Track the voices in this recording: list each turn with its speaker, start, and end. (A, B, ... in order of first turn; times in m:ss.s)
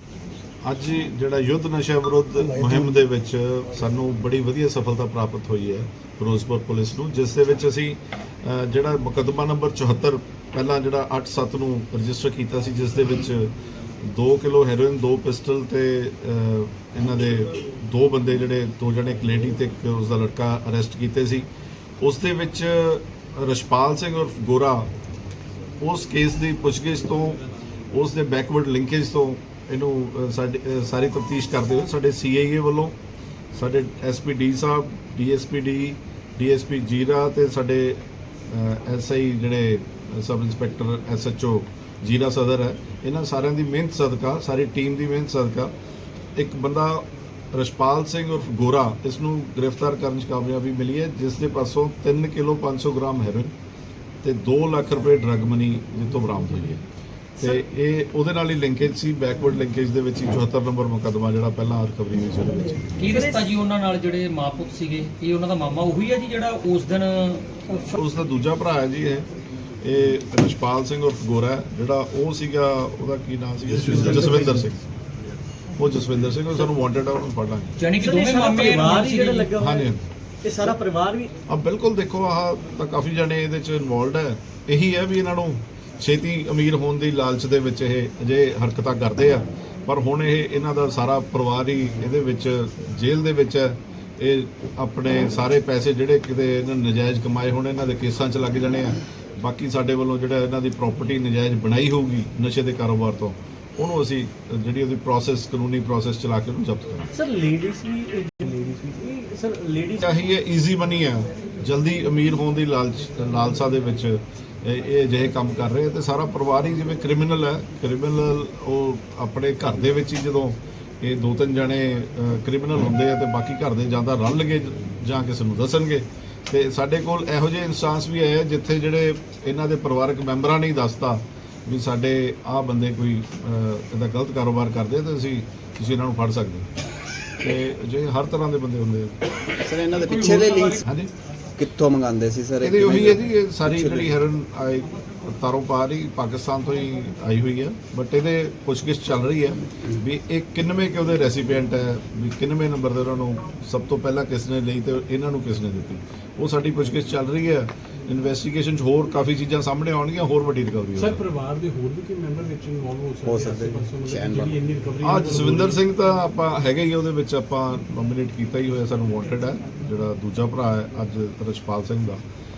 0:00.6-0:21.5 A
0:22.0-0:24.9 A
0:25.8-0:33.0 A
0:33.5-0:45.7 A
0:46.4-0:53.5 A
0:54.2-0:56.8 A
0:57.4-1:03.0 A
1:03.0-1:08.0 B
1:03.1-1:03.5 C
1:08.0-1:09.3 A
1:09.8-1:14.8 A
1:13.7-1:14.6 D
1:13.9-1:14.3 C
1:15.8-1:17.8 A
1:17.8-1:19.5 B
1:18.0-1:19.9 C
1:19.6-1:20.0 A
1:20.4-1:21.3 C
1:21.5-1:47.1 A
1:47.1-1:50.0 C
1:50.0-2:16.7 A
2:17.4-2:19.1 A
2:19.6-2:20.8 E
2:20.8-2:21.1 A
2:21.6-2:24.2 E
2:22.6-2:41.2 A
2:41.0-2:45.8 D
2:43.2-2:43.5 C
2:43.3-2:44.6 E
2:45.0-2:52.2 A